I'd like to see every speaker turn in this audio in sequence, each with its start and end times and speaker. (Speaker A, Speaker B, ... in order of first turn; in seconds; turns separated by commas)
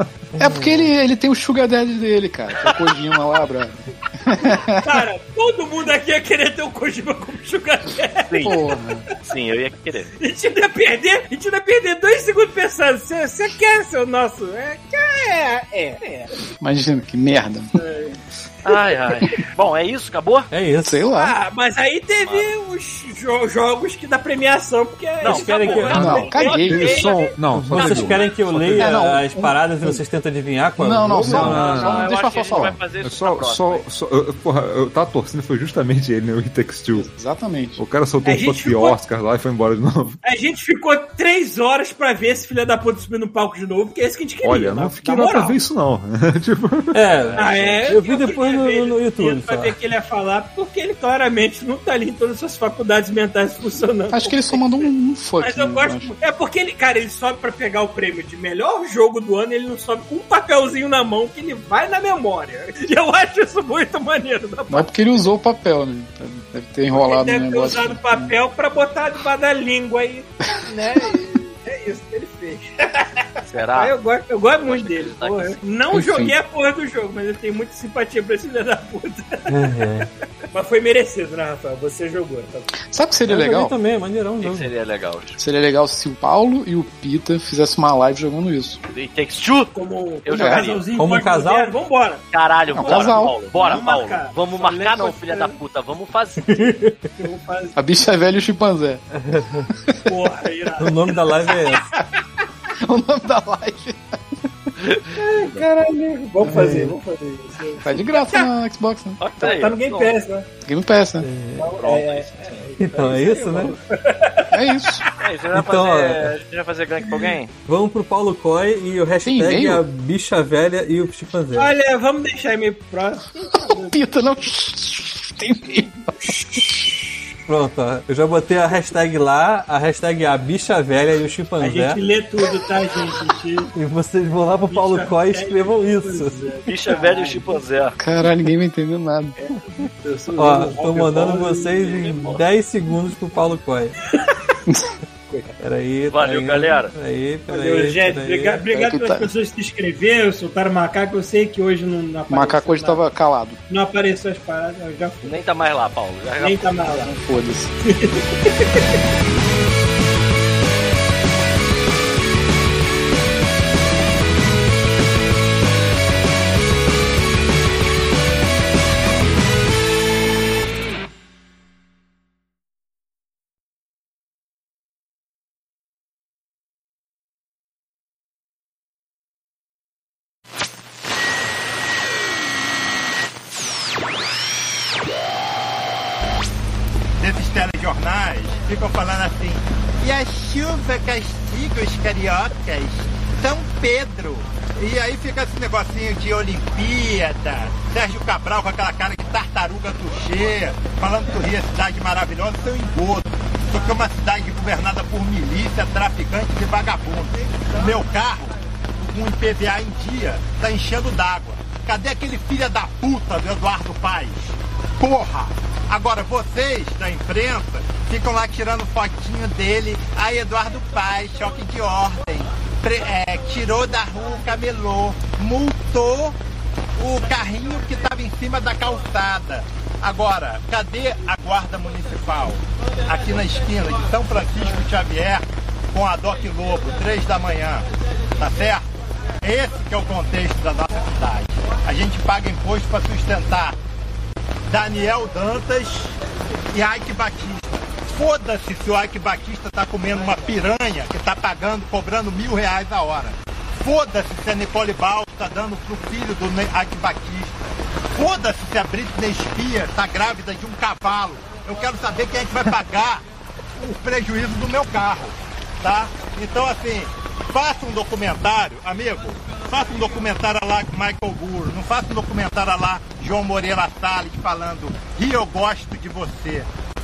Speaker A: 0.3-0.9, Speaker B: 0.4-5.0, Speaker C: 4.3-8.7, Speaker D: 8.2-8.6, Speaker B: 8.4-9.0, Speaker D: 9.2-10.1, Speaker C: 10.2-16.3, Speaker B: 16.6-17.7, Speaker C: 17.7-18.8, Speaker D: 18.6-20.5, Speaker A: 20.5-21.1, Speaker B: 20.8-21.3, Speaker C: 21.1-28.5, Speaker D: 22.2-22.5, Speaker D: 25.2-27.1, Speaker A: 25.2-26.3, Speaker E: 25.9-28.8, Speaker B: 25.9-27.0, Speaker A: 27.5-31.7, Speaker B: 28.8-30.0, Speaker B: 30.8-32.8, Speaker E: 31.3-37.1, Speaker D: 31.3-33.9, Speaker B: 36.9-37.8, Speaker E: 37.8-40.2, Speaker C: 38.2-39.0, Speaker C: 40.2-45.6, Speaker E: 44.4-47.0, Speaker A: 46.9-49.7, Speaker D: 47.1-47.9, Speaker C: 47.4-65.2, Speaker B: 54.1-56.1, Speaker B: 64.7-68.3, Speaker C: 66.9-79.6, Speaker B: 70.6-71.2, Speaker D: 73.4-74.0, Speaker D: 74.6-75.6, Speaker B: 75.9-76.4, Speaker A: 79.5-80.1, Speaker C: 80.5-82.7, Speaker B: 82.9-83.8, Speaker A: 83.2-84.7, Speaker D: 84.4-85.4, Speaker B: 85.4-88.8, Speaker D: 88.9-89.7, Speaker C: 89.7-92.2, Speaker D: 90.2-90.8, Speaker B: 90.3-90.7, Speaker A: 91.0-91.8, Speaker D: 92.3-96.7, Speaker B: 92.7-93.4, Speaker C: 92.8-95.5, Speaker A: 96.4-97.1, Speaker C: 97.2-97.8, Speaker B: 97.8-99.0, Speaker A: 99.1-99.7, Speaker B: 99.7-100.1, Speaker C: 100.0-102.0, Speaker A: 100.8-101.9, Speaker B: 102.8-104.2, Speaker D: 104.8-105.1, Speaker C: 105.1-108.5, Speaker B: 106.4-106.7, Speaker A: 106.5-106.9, Speaker B: 107.8-109.2, Speaker D: 109.2-110.1, Speaker C: 109.4-110.5, Speaker B: 110.6-111.3, Speaker A: 111.2-111.7, Speaker C: 111.6-115.1, Speaker D: 111.8-112.6, Speaker A: 112.8-113.7, Speaker B: 114.5-115.1, Speaker D: 115.2-117.5, Speaker A: 115.5-116.4, Speaker A: 117.7-121.7, Speaker B: 119.2-119.8, Speaker C: 121.5-124.0, Speaker B: 123.5-126.9, Speaker C: 126.1-126.9, Speaker A: 127.5-132.0, Speaker C: 131.6-133.7, Speaker A: 133.7-136.3, Speaker C: 134.7-137.6, Speaker D: 136.6-137.9, Speaker B: 138.0-139.4, Speaker D: 139.4-139.8, Speaker C: 139.8-142.3, Speaker A: 140.4-144.0, Speaker D: 141.9-142.4, Speaker C: 144.1-144.6, Speaker B: 144.7-144.9, Speaker C: 145.3-145.6, Speaker A: 145.6-148.6, Speaker D: 146.1-146.9, Speaker C: 147.5-153.0, Speaker B: 148.7-149.3, Speaker B: 152.3-153.6, Speaker C: 153.7-155.3, Speaker D: 155.2-156.7, Speaker C: 156.4-157.1, Speaker B: 156.9-157.7, Speaker C: 157.8-158.8, Speaker F: 187.2-226.4, Speaker F: 227.0-243.8, Speaker F: 244.7-246.2, Speaker F: 246.7-257.5, Speaker F: 258.1-263.2, Speaker F: 263.8-276.7